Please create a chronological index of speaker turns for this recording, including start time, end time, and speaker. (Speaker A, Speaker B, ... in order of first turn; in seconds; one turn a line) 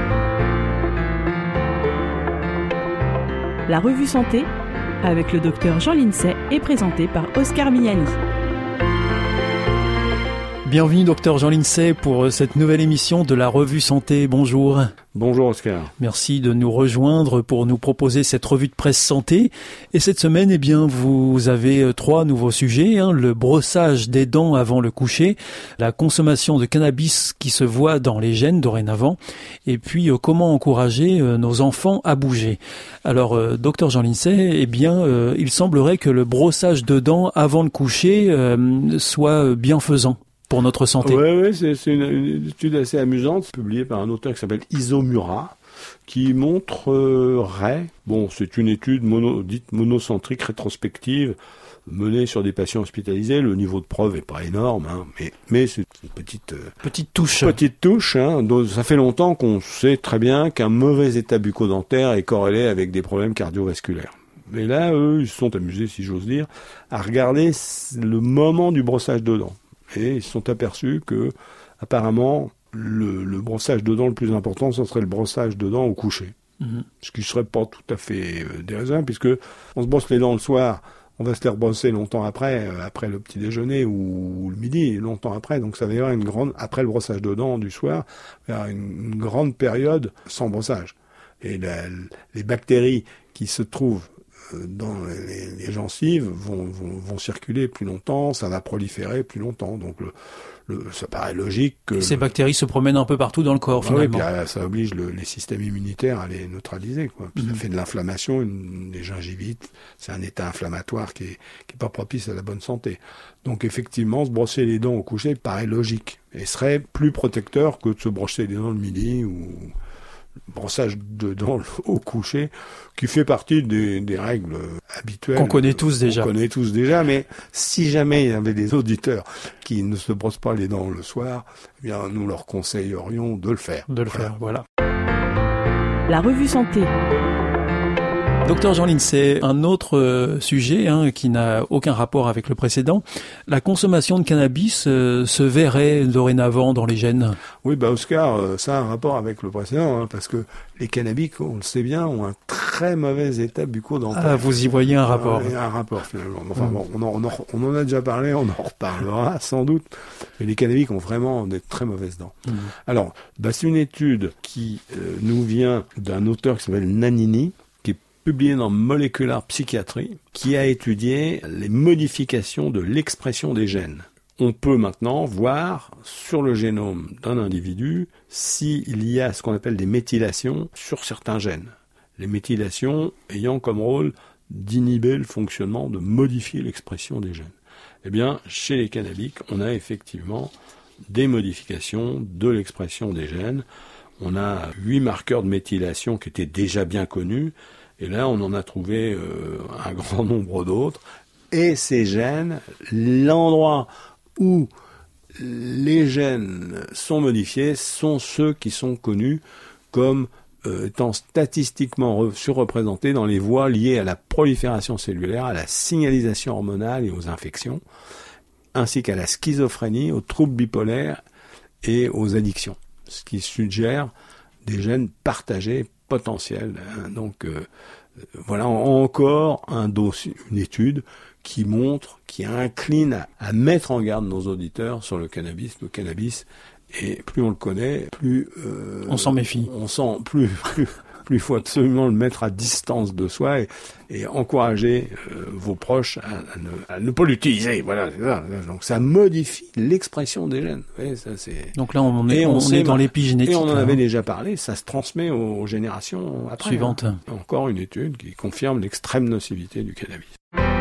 Speaker A: 3.7-4.5
Speaker A: 5.0-8.1
Speaker B: 10.6-14.9
Speaker C: 15.1-15.9
Speaker B: 16.0-41.2
Speaker C: 41.0-45.5
Speaker C: 46.1-51.4
Speaker C: 51.9-56.7
Speaker B: 56.8-57.6
Speaker C: 57.3-76.3
Speaker C: 77.0-100.1
Speaker C: 100.7-102.2
Speaker B: 102.0-104.2
Speaker C: 103.8-119.7
Speaker C: 120.5-134.3
Speaker B: 125.3-126.3
Speaker B: 133.9-134.6
Speaker A: 136.1-136.9
Speaker B: 138.4-147.4
Speaker C: 147.6-187.5
Speaker B: 154.1-155.5
Speaker C: 188.0-190.5
Speaker C: 191.1-193.6
Speaker C: 194.2-204.7
Speaker C: 205.3-217.8
Speaker C: 218.7-221.2
Speaker C: 221.8-224.1
Speaker C: 224.6-227.7
Speaker C: 228.4-251.7
Speaker B: 239.1-239.7
Speaker B: 251.8-254.0
Speaker C: 252.3-260.3
Speaker B: 256.6-257.2